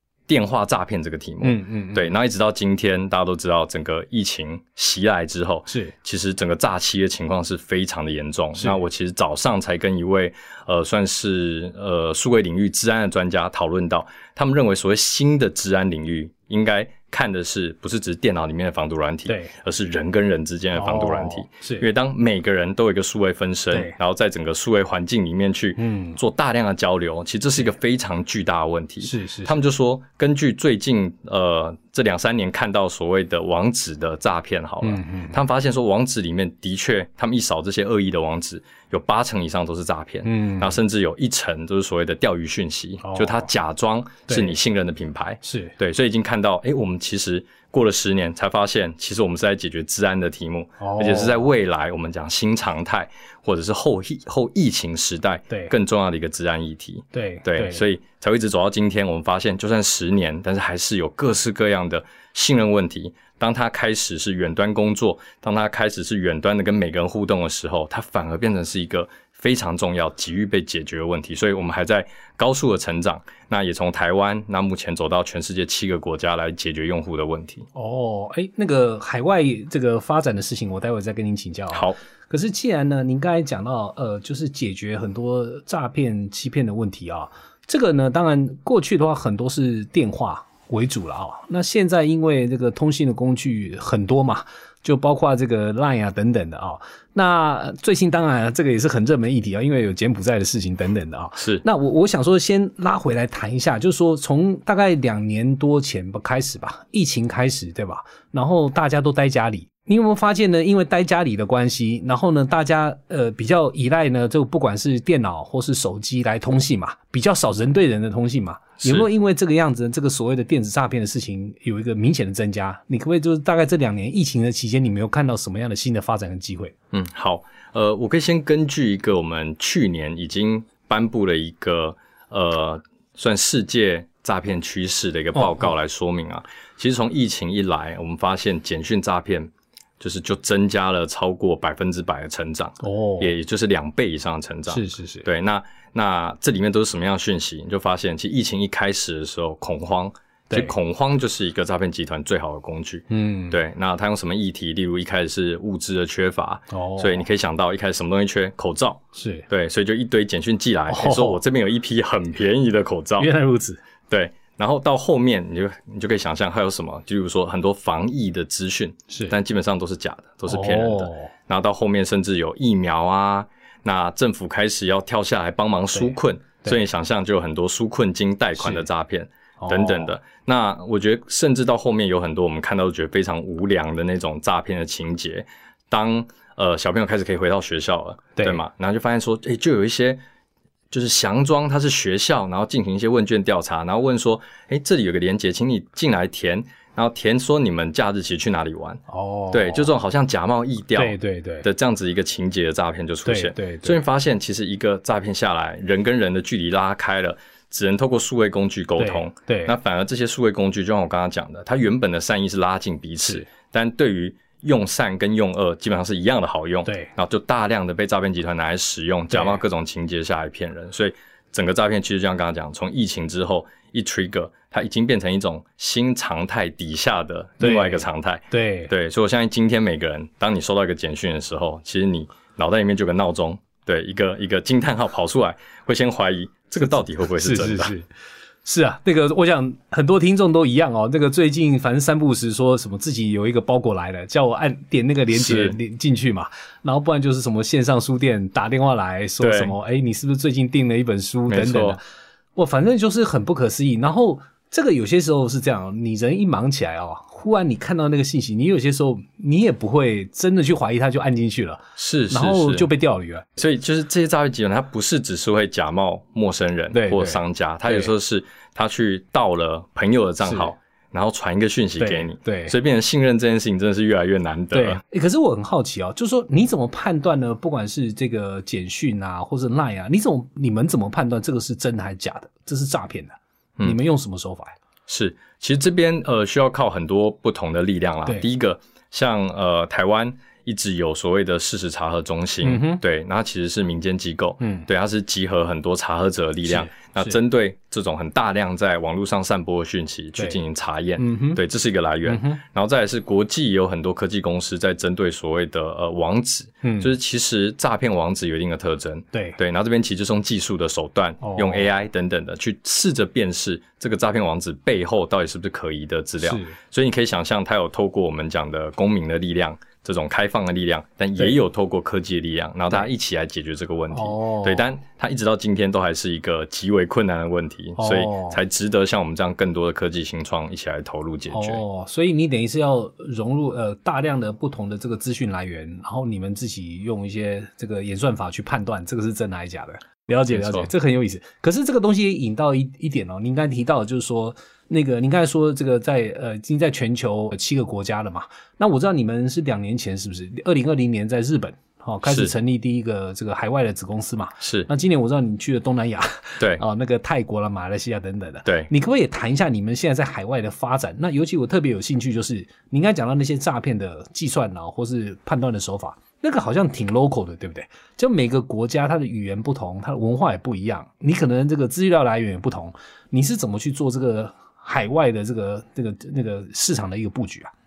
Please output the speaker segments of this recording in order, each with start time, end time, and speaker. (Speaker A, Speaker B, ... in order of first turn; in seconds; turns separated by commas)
Speaker A: 0.3-77.7, Speaker B: 1.4-2.1, Speaker B: 5.7-5.9, Speaker B: 19.3-19.5, Speaker B: 20.7-21.9, Speaker B: 25.8-26.2, Speaker B: 29.0-29.6, Speaker B: 34.8-35.4, Speaker B: 40.2-40.8, Speaker B: 43.0-43.5, Speaker B: 44.3-44.5, Speaker B: 45.4-45.7, Speaker B: 50.8-51.4, Speaker B: 57.1-57.8, Speaker B: 77.7-126.7, Speaker A: 81.7-82.0, Speaker A: 101.4-101.6, Speaker A: 118.8-119.1, Speaker A: 126.9-163.3, Speaker B: 135.3-135.7, Speaker B: 142.8-143.3, Speaker B: 144.7-145.2, Speaker B: 153.1-153.6, Speaker B: 156.7-157.2, Speaker B: 159.1-159.4, Speaker B: 160.9-161.4, Speaker B: 163.2-163.8, Speaker A: 164.1-190.2, Speaker B: 169.1-169.3, Speaker B: 170.5-171.3, Speaker B: 175.9-176.8, Speaker B: 178.6-178.8, Speaker B: 179.6-180.1, Speaker A: 190.9-237.9, Speaker B: 199.1-199.9, Speaker B: 200.9-201.7, Speaker B: 203.2-204.0, Speaker B: 209.0-209.7, Speaker B: 216.8-217.1, Speaker B: 219.3-219.6, Speaker B: 227.6-228.9, Speaker B: 237.2-238.1, Speaker B: 238.6-252.0, Speaker A: 245.3-245.8, Speaker A: 249.4-249.7, Speaker A: 251.5-252.0, Speaker B: 252.6-263.4, Speaker A: 261.9-262.9, Speaker A: 263.6-275.0, Speaker B: 266.9-268.1, Speaker B: 270.4-270.7, Speaker B: 272.0-272.8, Speaker B: 274.7-284.8, Speaker A: 285.1-331.8, Speaker B: 292.6-293.0, Speaker B: 294.6-294.9, Speaker B: 296.6-297.4, Speaker B: 301.2-301.6, Speaker B: 302.2-302.6, Speaker B: 306.8-307.1, Speaker B: 309.3-309.6, Speaker B: 311.4-311.9, Speaker B: 316.4-316.8, Speaker B: 324.1-324.8, Speaker B: 328.0-328.6, Speaker B: 331.5-377.7, Speaker A: 340.5-340.9, Speaker A: 352.2-352.5, Speaker A: 354.6-354.9, Speaker A: 358.6-358.9